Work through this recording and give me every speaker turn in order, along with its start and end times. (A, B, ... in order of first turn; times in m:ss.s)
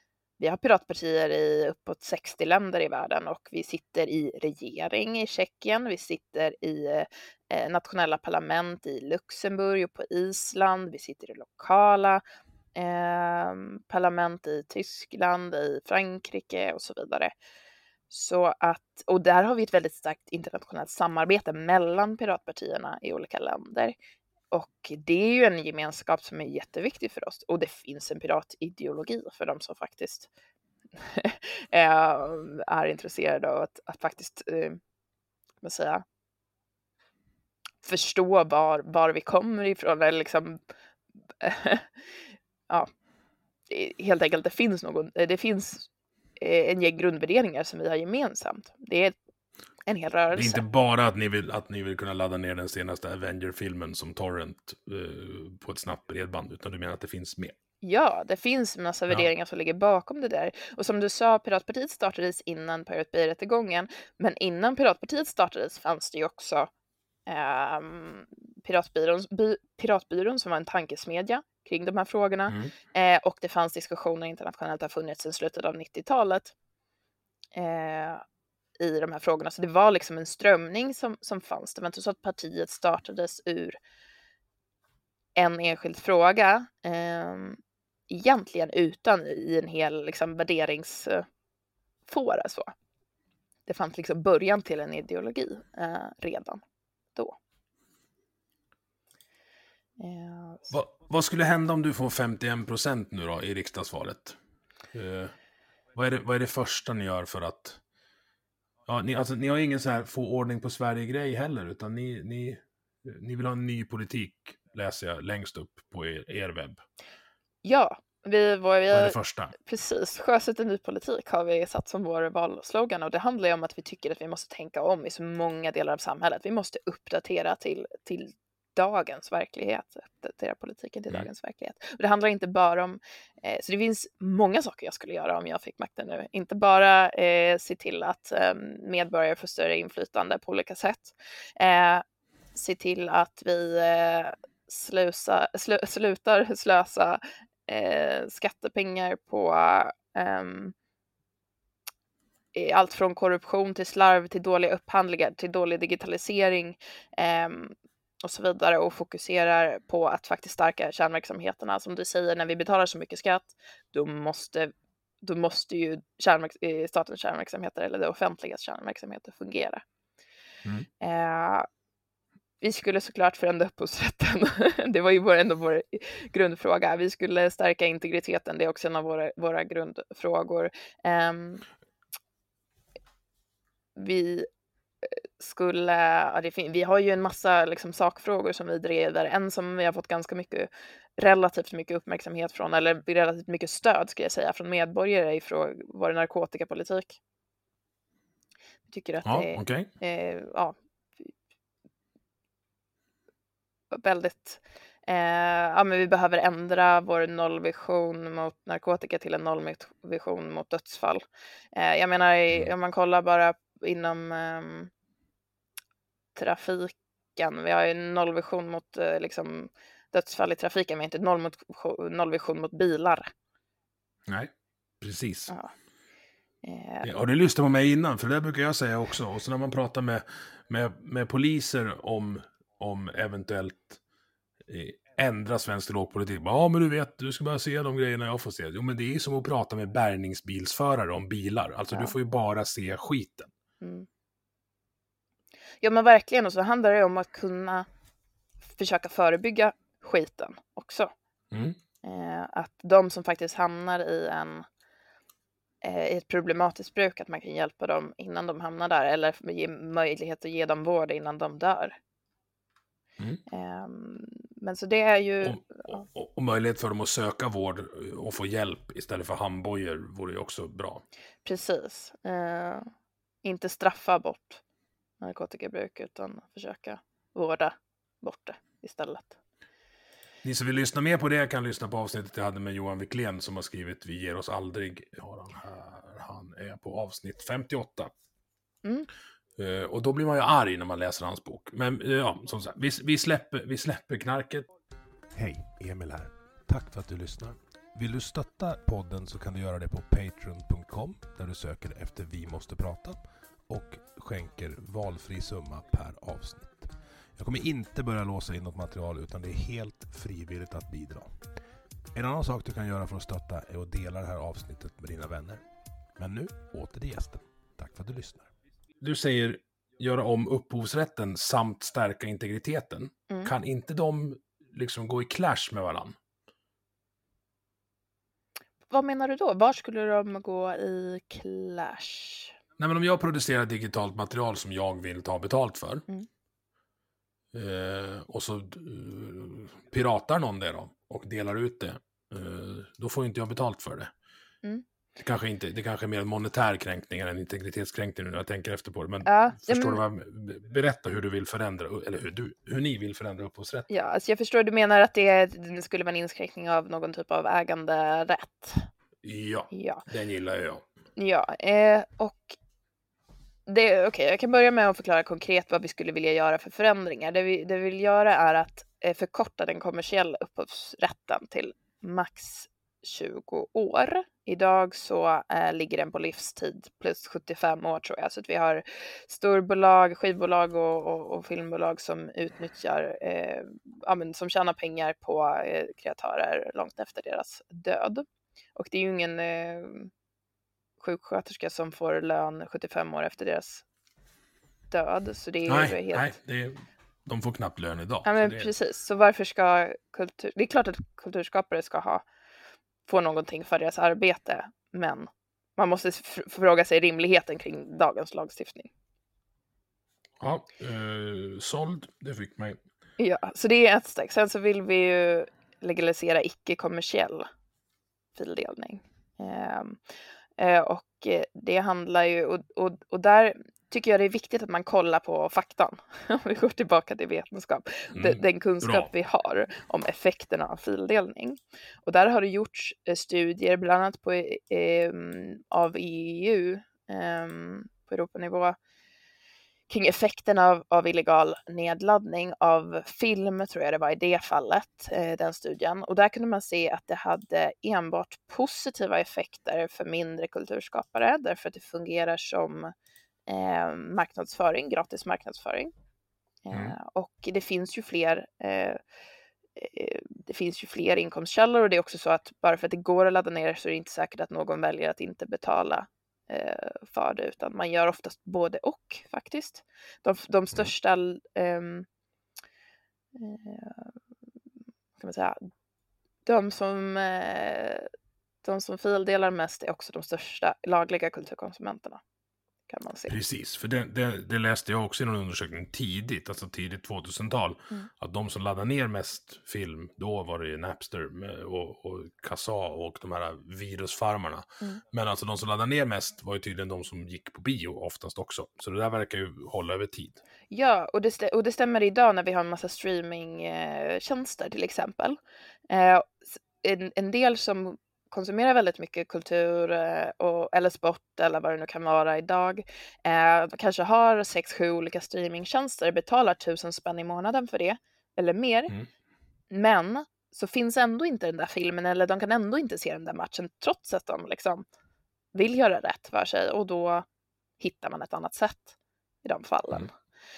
0:00.4-0:12.2 A
0:12.8-0:17.3 A
0:18.1-0:24.0 A
0:24.5-0:30.3 A
0:31.0-0:34.8 A
0:35.6-0:36.0 A
0:37.8-0:40.6 A
0:41.4-0:41.9 A
0:43.7-0:45.9 A
0:46.4-0:49.2 A
0:49.9-0:50.6 A
0:50.3-0:57.6 B
0:57.8-1:06.7 A
1:07.3-1:16.5 A
1:12.5-1:12.7 B
1:17.6-1:18.2 A
1:18.8-1:23.8 A
1:25.4-1:31.2 A
1:32.1-1:32.7 A
1:33.7-1:36.6 A
1:40.0-1:40.7 A
1:40.7-1:44.4 B
1:44.9-1:45.3 B
1:46.0-1:47.8 B
1:48.9-1:56.8 B
1:57.6-2:22.0 A
1:58.9-1:59.5 B
2:22.6-2:30.7 A
2:32.5-2:44.7 A
2:45.2-2:49.8 A
2:51.0-2:51.7 A
2:52.6-3:01.6 A
3:04.0-3:04.5 A
3:05.0-3:17.2 A
3:18.9-3:20.8 A
3:19.2-3:19.9 B
3:23.9-3:34.9 A
3:36.4-3:43.3 A
3:44.3-3:45.5 B
3:45.5-3:45.7 A
3:46.6-3:47.1 A
3:47.0-3:54.0 B
3:54.7-4:03.5 B
4:03.8-4:04.1 A
4:05.8-4:07.9 A
4:08.7-4:11.1 A
4:11.5-4:11.8 B
4:12.0-4:14.6 A
4:15.8-4:22.0 A
4:23.5-4:26.0 A
4:25.4-4:31.0 B
4:31.4-4:32.9 A
4:33.4-4:34.6 A
4:35.2-4:39.4 A
4:40.4-4:48.1 B
4:49.6-4:54.7 B
4:55.3-5:11.4 C
5:12.1-5:15.6 C
5:16.2-5:18.5 C
5:19.0-5:26.2 B
5:28.9-5:32.5 A
5:32.8-5:36.1 B
5:37.5-5:44.1 B
5:45.2-5:53.9 B
5:49.2-5:50.0 A
5:53.9-5:58.9 A
5:59.2-6:00.9 B
5:59.7-6:00.0 A
6:01.2-6:02.6 A
6:03.7-6:28.2 A
6:28.8-6:30.1 A
6:31.0-6:33.8 A
6:34.9-6:36.4 A
6:35.7-6:38.7 B
6:38.2-6:42.2 A
6:43.1-6:48.9 A
6:50.4-6:52.8 B
6:53.2-6:57.5 A
6:58.4-7:00.0 A
7:00.6-7:18.8 A
7:08.1-7:09.1 B
7:19.9-7:32.9 A
7:33.5-7:35.9 A
7:36.7-7:39.0 A
7:39.8-7:52.1 A
7:53.4-7:54.1 A
7:55.2-7:55.6 A
7:56.5-7:58.1 A
7:58.6-8:02.2 A
8:02.9-8:03.4 A
8:03.3-8:20.4 B
8:20.7-8:25.4 A
8:25.9-8:38.9 A
8:39.7-8:44.8 A
8:45.5-8:47.2 A
8:47.8-8:50.1 A